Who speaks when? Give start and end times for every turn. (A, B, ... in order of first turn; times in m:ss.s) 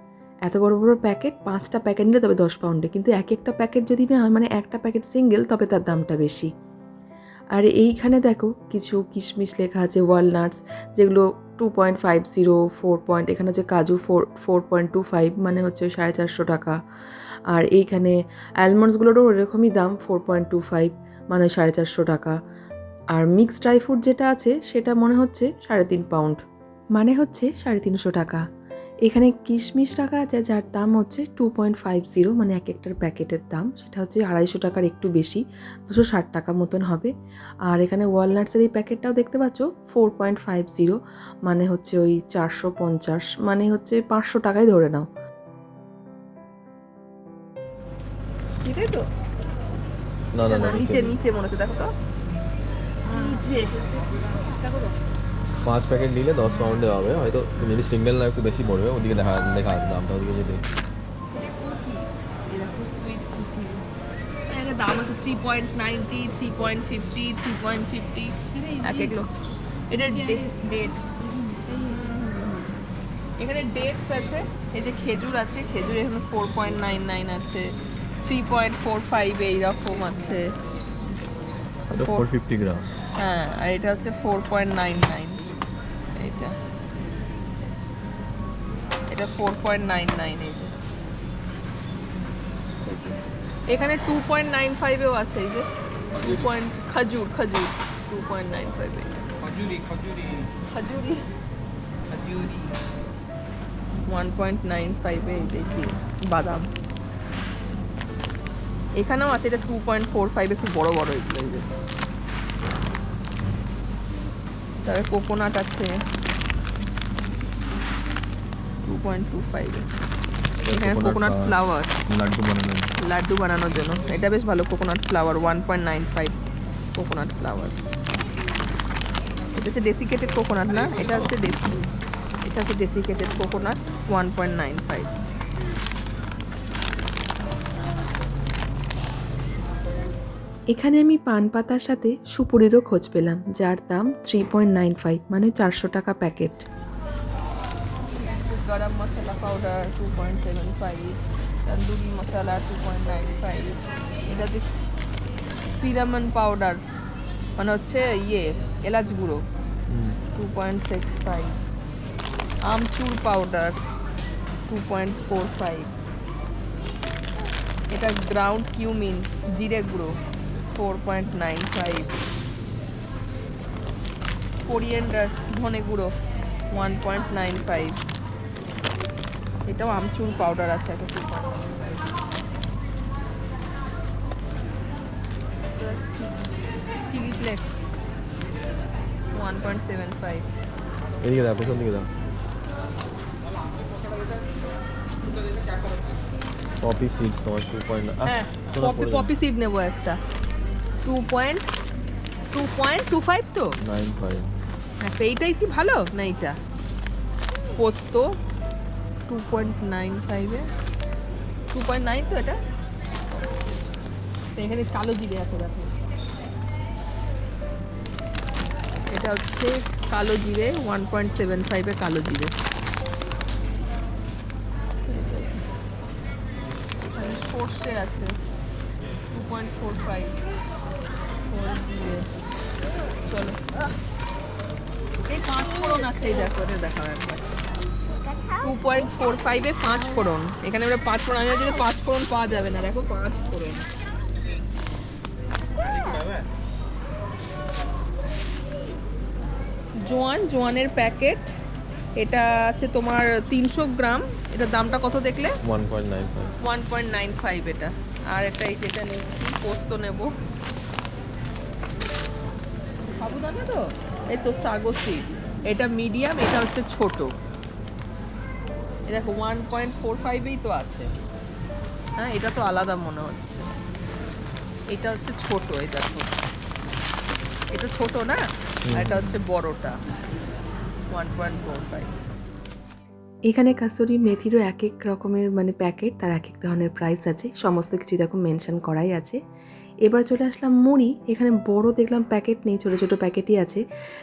0:00.5-0:06.5 A
0:07.6-0:16.8 A
0:17.5-0:22.3 A
0:23.2-0:26.4 A
0:27.0-0:28.4 A
0:29.1-0:37.1 A
0:37.7-0:45.1 A
0:48.6-0:49.0 B
0:50.3-0:51.2 C
0:50.4-0:51.9 B
0:53.0-0:53.8 B
0:54.4-0:55.0 B
0:55.6-1:00.6 C
1:01.3-1:04.0 B
1:04.5-1:09.3 B
1:09.9-1:11.0 B
1:11.7-1:12.7 B
1:13.4-1:17.6 B
1:18.2-1:20.4 B
1:21.9-1:22.9 C
1:22.0-1:22.2 B
1:23.2-1:25.4 B
1:26.2-1:26.5 B
1:29.1-1:30.7 B
1:32.8-1:33.2 B
1:33.7-1:39.2 B
1:40.7-1:41.2 B
1:44.1-1:46.7 B
1:49.0-1:51.7 B
1:54.8-1:55.9 B
1:58.8-1:59.9 B
2:00.6-2:01.5 C
2:00.7-2:02.0 B
2:02.1-2:02.9 C
2:03.0-2:06.4 B
2:06.9-2:07.8 B
2:09.5-2:11.8 B
2:12.4-2:15.1 B
2:20.7-2:26.6 A
2:28.0-2:34.6 B
2:35.7-2:36.8 B
2:37.6-2:39.4 B
2:39.9-2:40.2 C
2:40.3-2:41.6 B
2:42.6-2:43.8 B
2:44.7-2:45.9 B
2:47.9-2:50.1 B
2:50.7-2:52.2 B
2:54.6-2:56.1 B
2:56.7-2:58.0 B
2:59.7-3:01.6 B
3:05.8-3:06.4 B
3:07.1-3:07.7 B
3:09.3-3:10.5 B
3:11.2-3:12.1 C
3:16.8-3:19.3 C
3:18.2-3:20.2 B
3:21.0-3:21.6 B
3:22.5-3:23.7 B
3:23.8-3:24.5 C
3:25.0-3:26.6 B
3:27.8-3:28.3 B
3:29.3-3:30.7 B
3:31.7-3:32.6 B
3:34.6-3:35.9 B
3:39.1-3:42.6 B
3:45.1-3:45.6 B
3:47.0-3:48.3 B
3:49.3-3:50.4 B
3:51.5-3:52.3 B
3:53.2-3:53.6 B
3:55.3-3:57.8 B
3:58.6-4:03.8 B
4:10.0-4:11.5 B
4:12.2-4:15.6 B
4:15.6-4:16.5 C
4:16.6-4:20.3 B
4:23.2-4:27.3 B
4:29.1-4:31.1 B
4:32.2-4:33.7 B
4:34.9-4:36.4 B
4:37.7-4:40.0 B
4:38.8-4:39.4 C
4:41.1-4:42.1 B
4:43.5-4:49.4 A
4:50.0-4:53.8 A